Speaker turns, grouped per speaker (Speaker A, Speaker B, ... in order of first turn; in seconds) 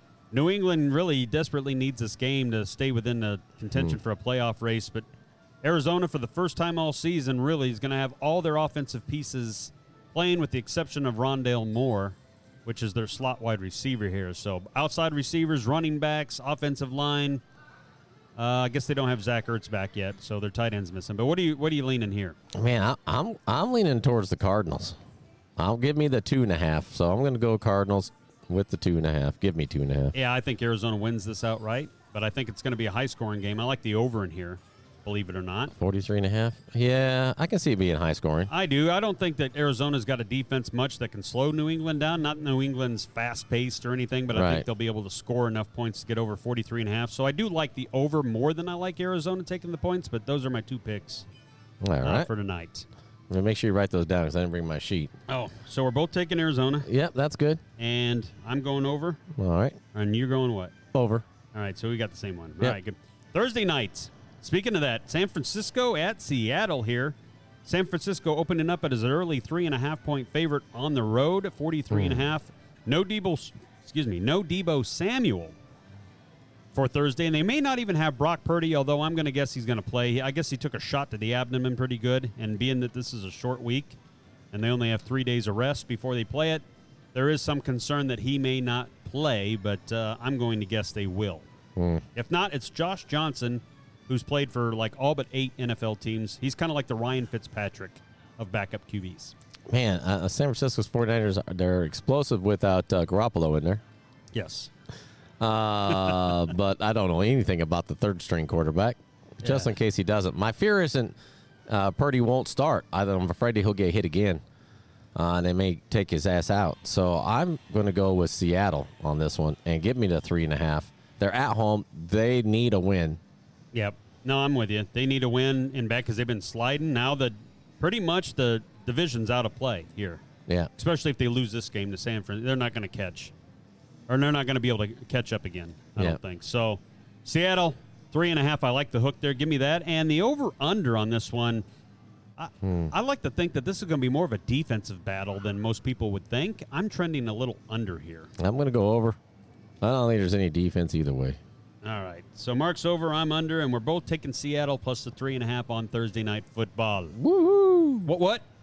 Speaker A: 0.3-5.1, 5.6-17.4, 18.4-22.4, 30.1-35.7, 38.5-51.3, 52.0-52.9, 55.3-56.9, 57.8-59.2, 59.9-60.7, 61.5-75.5, 76.7-84.0, 84.5-91.5, 92.2-99.3, 104.3-104.7, 105.9-106.3, 109.4-109.7, 123.7-130.2, 130.8-133.3, 134.1-141.7, 142.4-148.3, 151.8-157.2, 158.1-158.4
Speaker B: 22.5-25.0, 25.6-30.1, 35.7-38.5, 44.3-44.7, 51.8-52.3, 53.3-55.1, 56.9-57.6, 59.4-59.8, 60.9-61.2, 71.9-72.3, 91.8-92.0, 99.7-103.8, 105.4-111.2, 111.7-114.4, 115.2-123.2, 142.6-142.9, 148.4-149.2, 149.8-151.4, 157.2-158.1